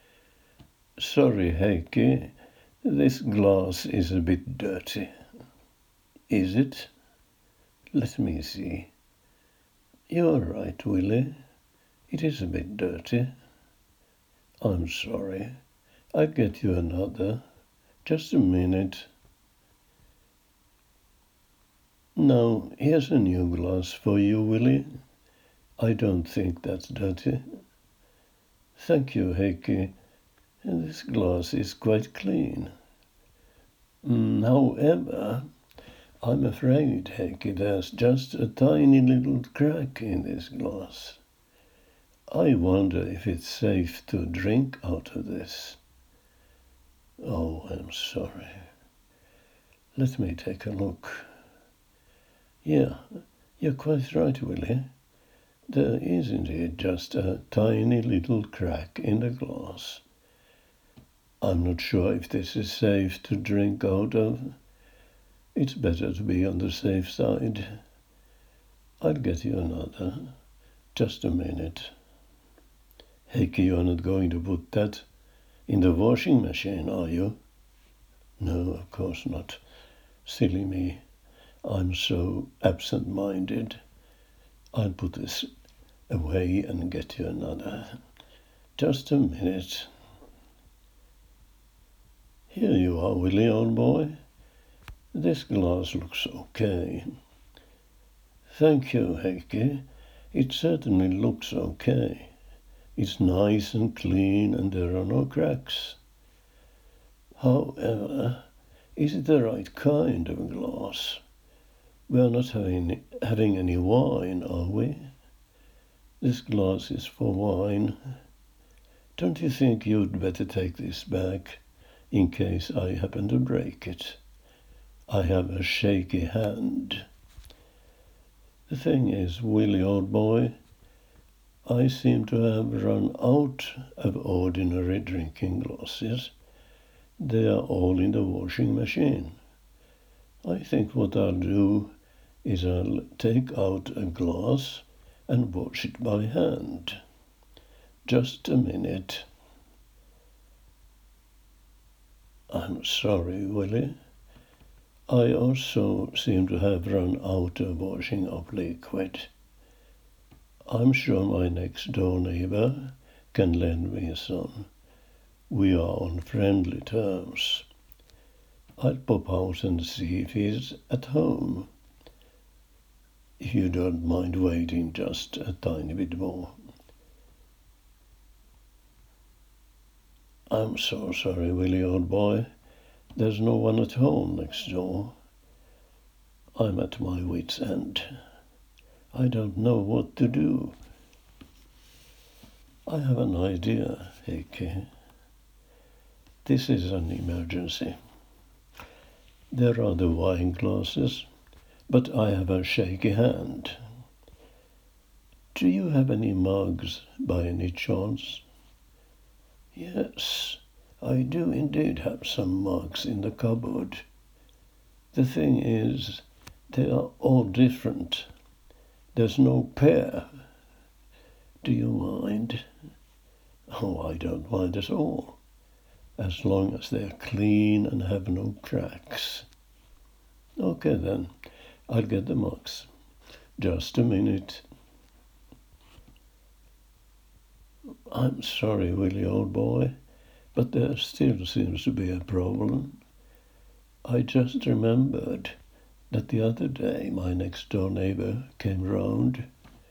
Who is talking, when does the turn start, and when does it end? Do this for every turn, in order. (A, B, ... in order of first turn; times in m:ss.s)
0:01.0-0:05.1 A
0:06.3-0:06.9 A
0:07.9-0:08.9 A
0:10.1-0:11.4 A
0:12.1-0:13.3 A
0:14.6-0:15.6 A
0:16.1-0:17.4 A
0:18.0-0:19.1 A
0:22.2-0:24.9 A
0:25.8-0:27.4 A
0:28.8-0:29.9 A
0:30.6-0:32.7 A
0:34.0-0:35.5 A
0:36.2-0:41.2 A
0:42.3-0:45.8 A
0:47.2-0:48.7 A
0:50.0-0:51.3 A
0:52.6-0:54.9 A
0:55.7-1:00.0 A
1:01.4-1:04.6 A
1:05.6-1:07.8 A
1:09.0-1:10.3 A
1:10.9-1:11.9 A
1:13.3-1:15.1 A
1:15.7-1:17.4 A
1:18.4-1:19.6 A
1:20.2-1:21.0 A
1:21.6-1:23.8 A
1:24.7-1:25.5 A
1:26.1-1:28.0 A
1:28.8-1:29.9 A
1:32.5-1:34.2 A
1:35.1-1:37.1 A
1:38.5-1:42.3 A
1:43.0-1:46.0 A
1:47.4-1:48.4 A
1:49.0-1:51.2 A
1:52.1-1:55.1 A
1:56.2-1:58.0 A
1:59.2-2:04.2 A
2:05.1-2:07.1 A
2:08.7-2:10.6 A
2:11.7-2:16.3 A
2:17.2-2:19.4 A
2:20.4-2:21.9 A
2:22.4-2:27.0 A
2:28.1-2:29.3 A
2:32.5-2:34.0 A
2:35.1-2:39.3 A
2:40.7-2:44.7 A
2:45.5-2:47.7 A
2:48.8-2:51.7 A
2:53.4-2:56.6 A
3:00.5-3:02.5 A
3:03.2-3:05.2 A
3:06.6-3:08.1 A
3:09.1-3:10.8 A
3:12.9-3:14.9 A
3:16.4-3:18.0 A
3:19.5-3:21.3 A
3:21.9-3:23.8 A
3:25.6-3:28.4 A
3:29.8-3:34.0 A
3:35.1-3:38.3 A
3:39.1-3:40.3 A
3:41.6-3:42.6 A
3:43.7-3:45.4 A
3:46.2-3:49.5 A
3:50.6-3:51.3 A
3:51.9-3:52.9 A
3:53.6-3:54.6 A
3:58.1-3:59.9 A
4:00.6-4:03.0 A
4:04.0-4:05.6 A
4:06.1-4:09.5 A